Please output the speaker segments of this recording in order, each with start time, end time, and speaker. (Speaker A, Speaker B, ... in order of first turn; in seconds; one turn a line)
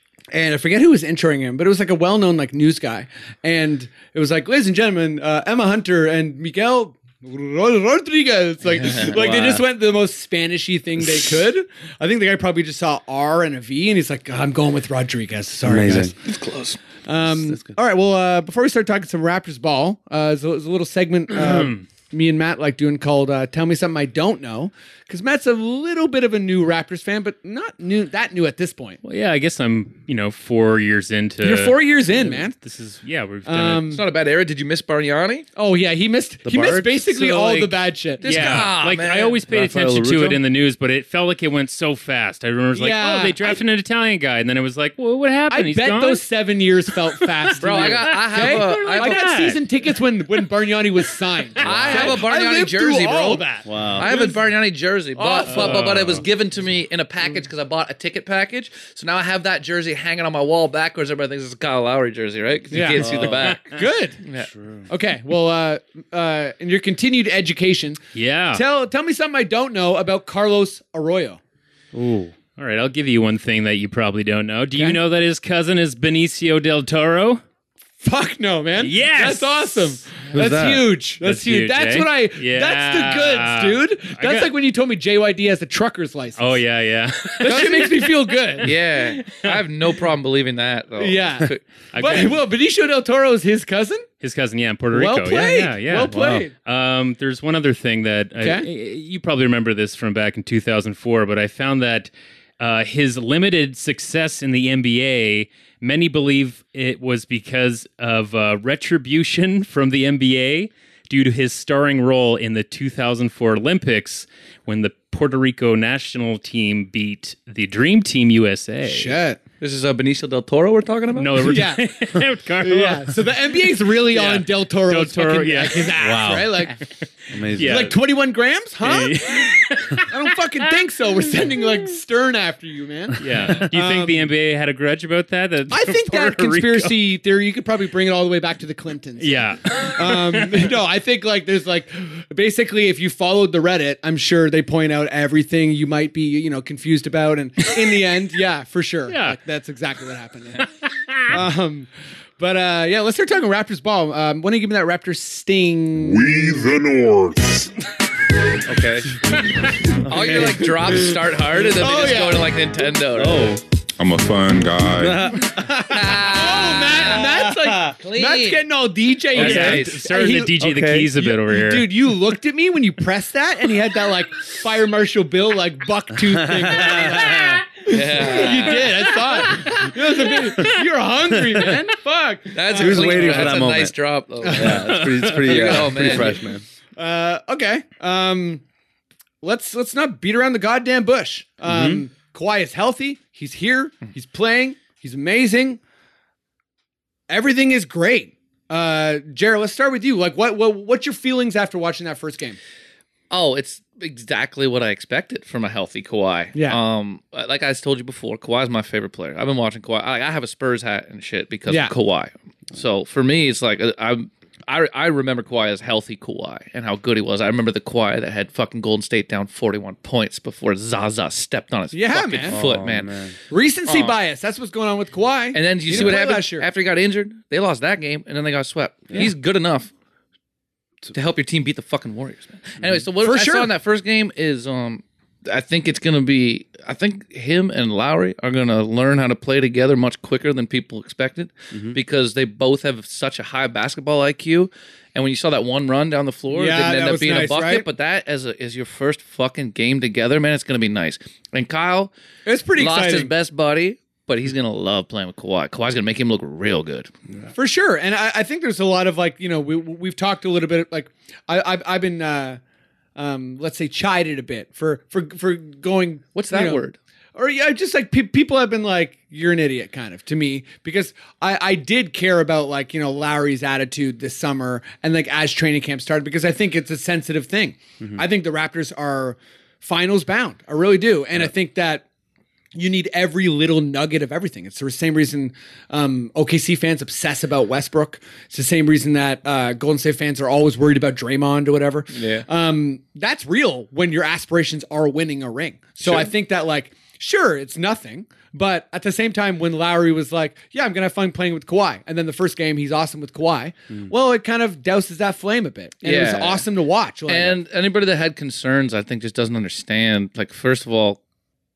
Speaker A: 0.3-16.1
Speaker B: 8.8-9.1
Speaker C: 9.1-9.6
Speaker C: 15.7-16.1
Speaker B: 16.2-16.8
Speaker A: 17.1-29.0
Speaker C: 17.2-17.8
Speaker D: 21.3-21.9
Speaker D: 29.0-33.9
Speaker A: 31.4-32.5
Speaker A: 33.5-34.0
Speaker B: 33.9-35.5
Speaker A: 35.5-38.3
Speaker C: 36.5-37.0
Speaker D: 37.1-46.2
Speaker B: 38.2-39.4
Speaker C: 39.5-40.4
Speaker A: 42.8-43.6
Speaker A: 45.5-54.4
Speaker D: 47.2-49.6
Speaker B: 47.6-49.5
Speaker D: 51.6-52.1
Speaker B: 51.6-63.7
Speaker C: 53.6-54.1
Speaker A: 55.1-55.9
Speaker D: 55.4-56.2
Speaker A: 62.7-64.2
Speaker C: 63.0-63.6
Speaker B: 64.2-64.5
Speaker C: 64.4-64.9
Speaker A: 64.9-68.0
Speaker D: 68.1-68.6
Speaker A: 68.5-71.4
Speaker D: 71.9-77.4
Speaker A: 74.8-75.0
Speaker A: 78.0-86.6
Speaker D: 78.8-80.3
Speaker C: 80.3-80.8
Speaker D: 81.2-84.5
Speaker D: 86.4-89.5
Speaker A: 87.4-88.8
Speaker B: 88.6-91.7
Speaker A: 91.0-94.1
Speaker D: 91.9-92.4
Speaker D: 94.2-119.2
Speaker A: 94.9-96.5
Speaker C: 96.0-96.5
Speaker A: 98.4-98.7
Speaker A: 118.9-119.4
Speaker B: 119.6-121.5
Speaker D: 121.2-123.2
Speaker A: 121.4-121.9
Speaker A: 122.6-126.8
Speaker D: 124.1-126.9
Speaker C: 127.3-127.9
Speaker D: 127.6-127.9
Speaker A: 127.6-134.3
Speaker D: 128.8-130.6
Speaker D: 133.2-137.0
Speaker A: 135.7-150.7
Speaker D: 139.2-140.7
Speaker D: 149.1-149.4
Speaker A: 151.3-156.6
Speaker E: 156.0-157.7
Speaker C: 158.6-159.1
Speaker A: 159.3-162.5
Speaker C: 159.9-160.7
Speaker B: 160.0-163.5
Speaker C: 163.1-163.6
Speaker E: 164.0-165.4
Speaker C: 165.0-166.1
Speaker B: 165.9-167.4
Speaker A: 165.9-170.6
Speaker C: 167.3-167.9
Speaker B: 168.0-168.6
Speaker B: 169.3-170.0
Speaker D: 169.4-171.9
Speaker C: 169.4-169.8
Speaker C: 170.6-171.2
Speaker A: 171.2-183.6
Speaker C: 176.2-177.6
Speaker B: 177.8-178.9
Speaker D: 179.7-180.6
Speaker B: 182.5-186.4
Speaker C: 182.8-186.6
Speaker A: 184.4-186.4
Speaker A: 187.0-188.6
Speaker A: 189.4-195.8
Speaker C: 191.6-192.0
Speaker A: 197.3-202.6
Speaker B: 203.3-223.2
Speaker A: 206.6-206.8
Speaker A: 221.9-222.6
Speaker C: 222.5-223.3
Speaker A: 223.5-226.7
Speaker B: 223.9-224.2
Speaker B: 225.5-229.9
Speaker B: 231.1-252.1
Speaker A: 233.2-233.7
Speaker A: 246.5-247.9
Speaker A: 252.5-253.3
Speaker B: 252.8-257.1
Speaker A: 257.6-262.6
Speaker A: 263.2-266.8
Speaker B: 266.4-267.0
Speaker A: 267.4-282.1
Speaker A: 282.8-307.6
Speaker B: 292.1-292.5
Speaker B: 296.0-296.3
Speaker B: 306.0-306.6
Speaker B: 307.3-311.2